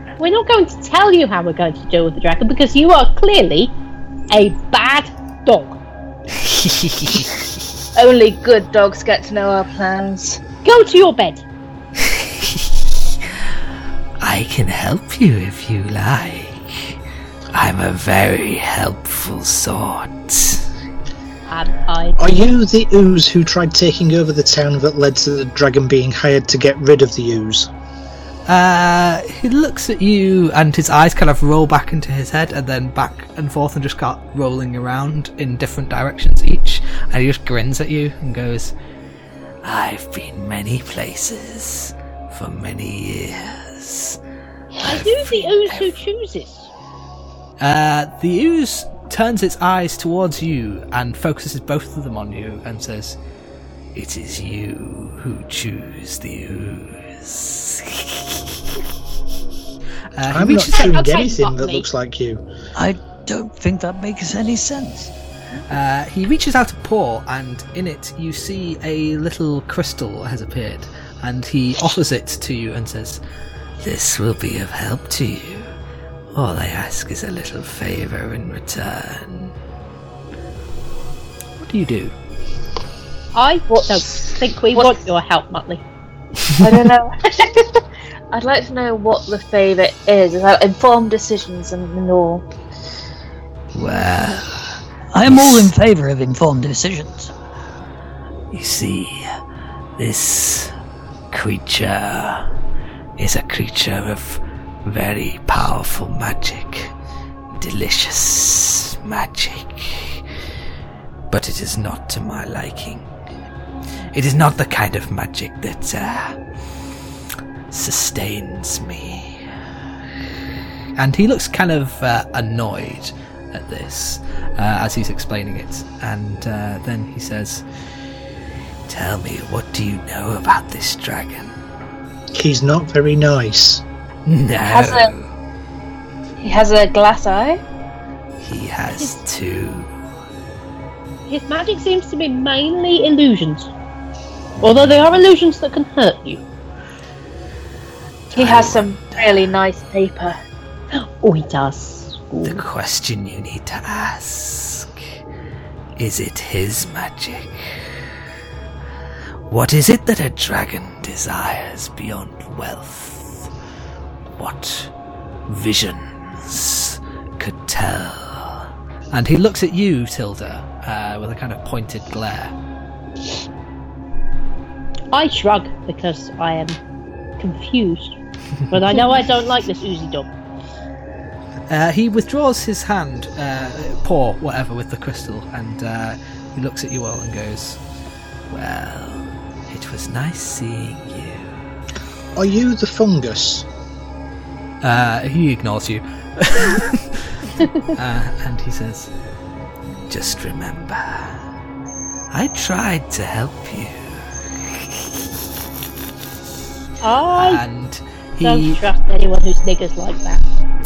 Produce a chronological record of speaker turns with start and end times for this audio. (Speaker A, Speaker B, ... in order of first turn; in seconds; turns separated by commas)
Speaker A: 0.2-3.7, Speaker A: 4.3-5.8, Speaker B: 6.3-7.3, Speaker C: 8.0-10.4, Speaker A: 10.6-11.4, Speaker B: 12.0-12.7, Speaker B: 14.2-17.0, Speaker B: 17.5-20.7, Speaker A: 21.5-22.5, Speaker D: 22.2-27.7, Speaker B: 28.5-38.7, Speaker B: 39.6-44.2, Speaker A: 44.8-46.7, Speaker B: 44.8-46.0, Speaker B: 47.6-53.2, Speaker B: 54.0-58.7, Speaker B: 60.2-61.0, Speaker D: 60.3-62.4, Speaker A: 60.7-61.9, Speaker E: 62.8-65.1, Speaker B: 65.7-73.2, Speaker B: 73.8-75.7, Speaker B: 76.3-79.5, Speaker B: 81.6-82.1, Speaker A: 83.3-85.8, Speaker C: 83.7-85.0, Speaker C: 86.6-87.8, Speaker C: 88.3-92.4, Speaker B: 93.7-94.8, Speaker E: 95.1-97.3, Speaker B: 95.3-95.7, Speaker B: 98.5-99.3, Speaker B: 100.0-100.7, Speaker B: 101.3-102.5, Speaker B: 103.2-106.9, Speaker B: 107.6-110.2, Speaker B: 111.3-113.1, Speaker B: 114.1-116.4, Speaker B: 117.7-119.4, Speaker B: 121.0-127.6, Speaker B: 128.9-131.6, Speaker D: 132.3-133.8, Speaker B: 134.3-135.3, Speaker C: 134.7-135.1, Speaker C: 136.4-137.6, Speaker B: 138.4-139.9, Speaker A: 141.3-143.7, Speaker A: 144.6-146.4, Speaker B: 148.3-149.5, Speaker C: 148.3-150.4, Speaker A: 150.9-152.6, Speaker B: 152.4-155.0, Speaker B: 156.0-157.8, Speaker B: 159.5-163.5, Speaker B: 164.4-164.9, Speaker B: 165.5-172.5, Speaker A: 175.1-176.8, Speaker A: 177.4-178.2, Speaker A: 178.7-180.3, Speaker B: 181.7-187.8, Speaker B: 188.5-191.6, Speaker D: 192.3-193.7, Speaker B: 194.8-199.1, Speaker B: 200.1-201.4, Speaker B: 202.3-205.2, Speaker A: 207.0-207.6, Speaker B: 207.3-208.8, Speaker A: 208.4-210.4